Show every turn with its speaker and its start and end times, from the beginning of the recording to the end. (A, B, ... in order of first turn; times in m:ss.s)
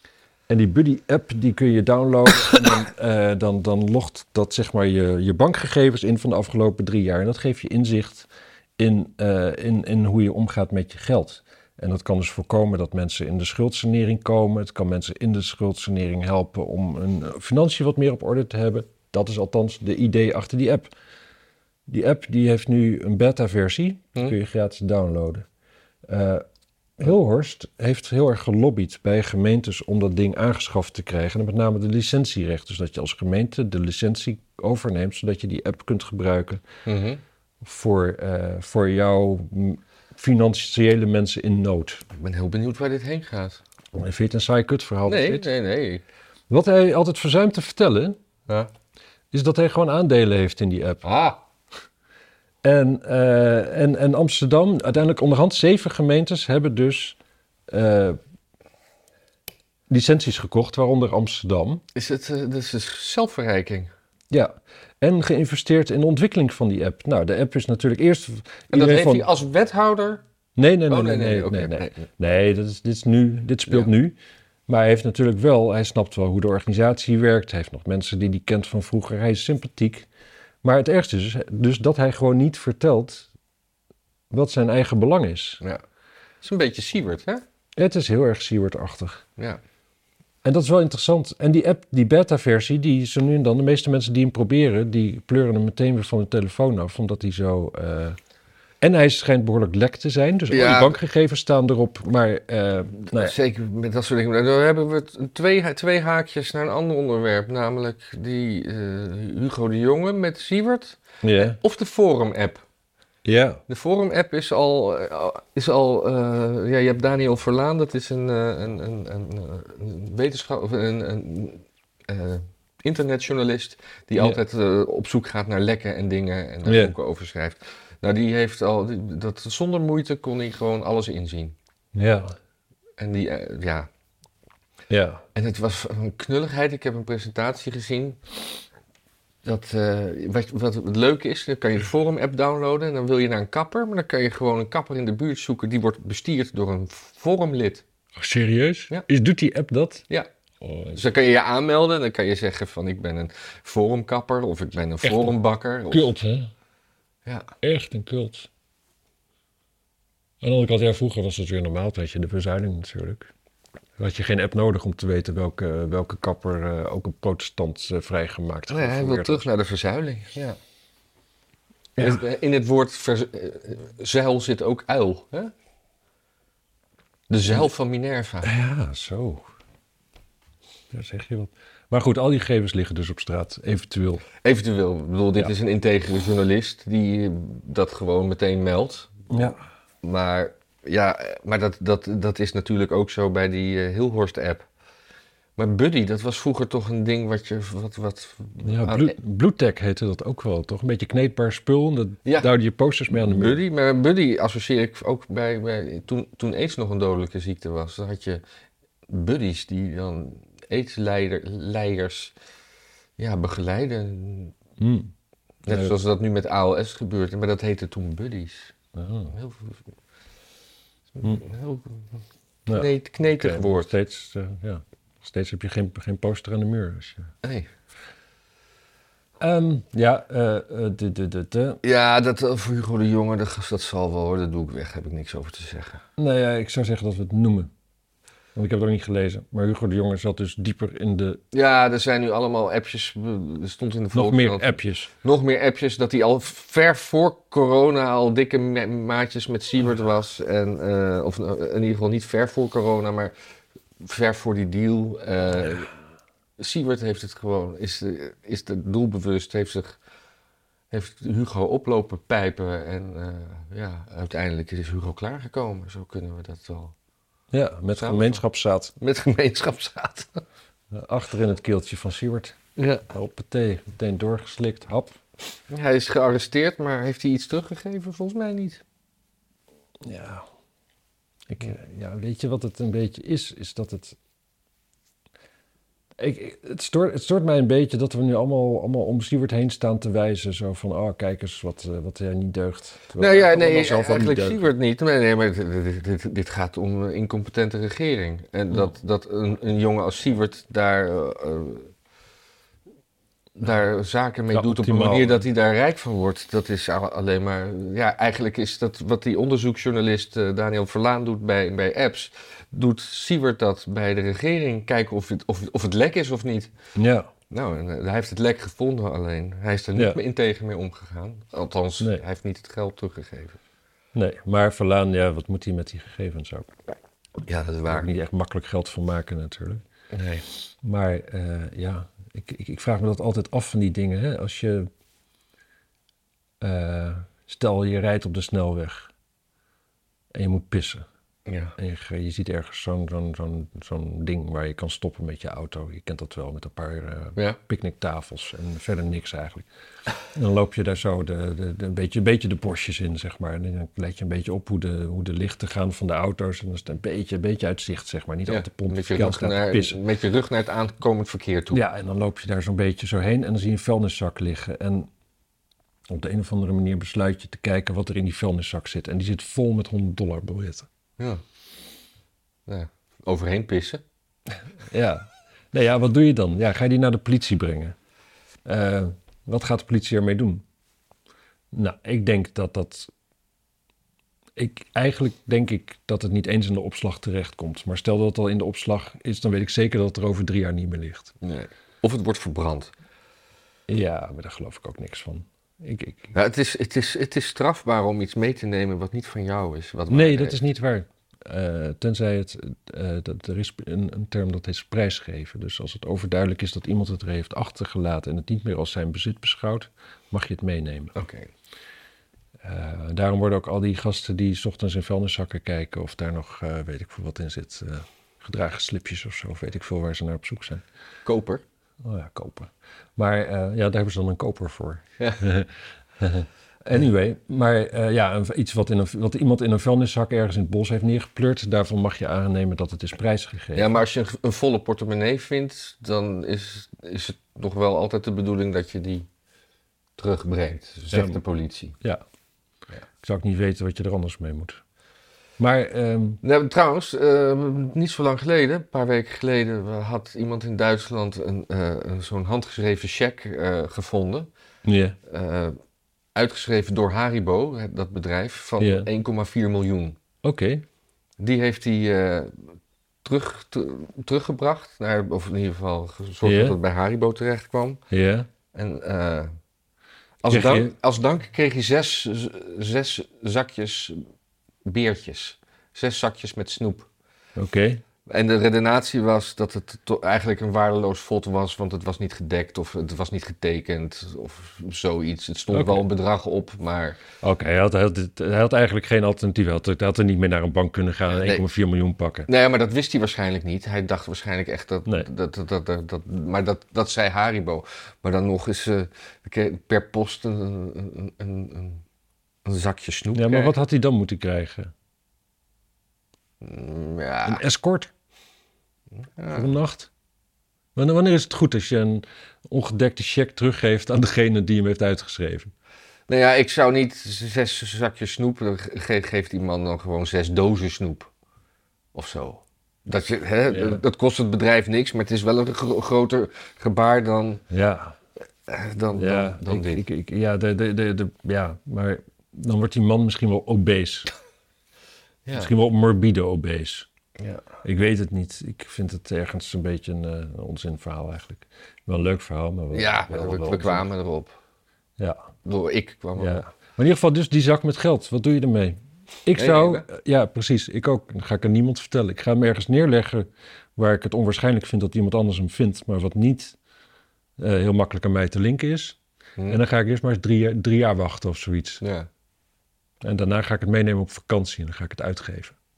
0:00.5-0:20.9 A
0:21.9-0:25.4 A
0:26.1-0:26.4 A
0:27.0-0:36.6 A
0:36.8-0:37.2 B
0:37.6-0:42.0 A
0:42.1-0:43.6 B
0:43.9-0:45.5 A
0:45.0-0:46.0 B
0:46.5-0:48.2 A
0:49.3-0:51.0 A
0:51.0-0:51.4 B
0:52.6-0:57.2 A
0:57.7-0:58.2 A
0:59.9-1:01.8 A
1:01.9-1:03.9 B
1:04.3-1:09.3 A
1:08.7-1:10.2 B
1:10.6-1:14.2 A
1:10.9-1:12.1 B
1:14.7-1:20.1 A
1:20.6-1:23.3 A
1:24.3-1:25.6 A
1:26.4-1:27.4 B
1:27.8-1:29.2 A
1:30.4-1:38.2 A
1:38.8-1:43.3 A
1:40.5-1:41.0 B
1:43.1-1:52.6 B
1:51.2-1:51.6 A
1:53.2-1:53.6 A
1:53.7-2:11.6 B
2:06.6-2:06.9 A
2:11.9-2:12.3 A
2:13.0-2:13.9 B
2:14.9-2:15.2 A
2:15.3-2:18.2 B
2:19.4-2:27.8 B
2:28.2-2:30.1 A
2:30.6-2:31.0 A
2:30.9-2:36.1 B
2:35.0-2:35.3 A
2:35.9-2:36.5 A
2:37.6-2:38.5 A
2:40.4-2:43.3 A
2:44.0-2:49.4 A
2:48.7-2:50.6 B
2:52.0-2:55.5 B
2:57.3-2:58.5 B
2:58.4-2:59.5 A
3:00.9-3:04.3 A
3:04.4-3:09.1 B
3:09.3-3:09.6 A
3:10.0-3:14.7 B
3:15.6-3:19.1 B
3:18.6-3:23.6 A
3:22.2-3:22.5 B
3:23.1-3:28.4 B
3:29.1-3:32.3 B
3:33.2-3:34.5 B
3:34.8-3:35.1 A
3:35.6-3:38.7 B
3:35.7-3:36.0 A
3:38.9-3:39.3 A
3:39.3-3:39.8 B
3:41.1-3:42.2 B
3:42.7-3:47.3 A
3:42.7-3:43.9 B
3:47.4-3:47.7 B
3:49.4-3:51.8 A
3:51.8-3:56.0 B
3:56.2-3:57.7 A
3:58.5-4:01.4 A
4:01.5-4:13.3 B
4:04.1-4:05.1 A
4:14.0-4:15.9 B
4:16.6-4:20.0 B
4:20.9-4:26.9 B
4:27.5-4:28.9 A
4:28.0-4:28.4 B
4:29.0-4:30.4 B
4:30.9-4:35.2 A
4:32.8-4:33.0 B
4:35.7-4:38.8 B
4:40.0-4:40.4 A
4:41.5-4:44.2 A
4:46.2-4:54.6 A
4:53.2-5:01.9 B
5:03.6-5:16.7 B
5:04.5-5:05.4 A
5:16.9-5:17.3 A
5:17.5-5:23.6 B
5:24.1-5:26.7 A
5:27.4-5:28.1 B
5:27.9-5:29.8 A
5:30.1-5:30.4 B
5:30.8-5:34.9 A
5:36.6-5:39.1 A
5:40.3-5:41.0 A
5:41.4-5:41.7 B
5:41.8-5:49.6 A
5:50.3-6:00.0 A
5:58.5-6:01.8 B
6:01.7-6:05.1 A
6:06.1-6:10.9 A
6:11.2-6:11.4 B
6:12.6-6:14.0 B
6:14.8-6:17.9 A
6:18.6-6:20.6 A
6:21.7-6:23.1 A
6:24.6-6:31.3 A
6:31.4-6:32.9 B
6:33.9-6:36.3 A
6:36.3-6:40.6 B
6:40.1-6:51.1 A
6:51.1-6:51.5 B
6:52.6-7:00.8 A
7:01.2-7:01.6 B
7:02.0-7:13.9 A
7:13.7-7:19.3 B
7:20.2-7:22.0 B
7:21.1-7:21.4 A
7:23.2-7:24.8 A
7:25.6-7:26.4 A
7:26.4-7:34.5 B
7:34.8-7:35.2 A
7:35.2-7:35.8 B
7:36.3-7:40.2 B
7:38.8-7:39.1 A
7:40.4-7:40.8 A
7:41.4-7:48.0 B
7:46.4-7:46.8 A
7:48.1-7:48.5 A
7:48.7-7:49.5 B
7:50.4-7:54.2 B
7:50.5-7:50.9 A
7:54.8-7:57.1 B
7:57.6-7:58.0 A
7:58.2-8:07.2 B
8:05.7-8:06.0 A
8:07.4-8:12.5 A
8:11.3-8:11.6 B
8:12.5-8:22.0 B
8:22.6-8:23.7 B
8:23.3-8:24.9 A
8:26.6-8:27.6 B
8:27.4-8:28.1 A
8:29.3-8:29.7 B
8:29.5-8:30.1 A
8:30.9-8:35.7 A
8:36.3-8:41.3 B
8:42.1-8:47.6 B
8:43.7-8:44.0 A
8:47.7-8:48.2 A
8:48.7-8:50.0 B
8:49.1-8:54.3 A
8:55.4-8:55.7 B
8:55.6-8:57.1 A
8:57.4-8:57.6 B
8:57.8-9:04.0 A
9:02.9-9:04.5 B
9:05.2-9:05.5 A
9:05.6-9:06.6 B
9:06.4-9:16.8 A
9:09.6-9:10.0 B
9:17.6-9:19.2 A
9:19.7-9:22.0 A
9:22.0-9:22.3 B
9:23.2-9:25.8 A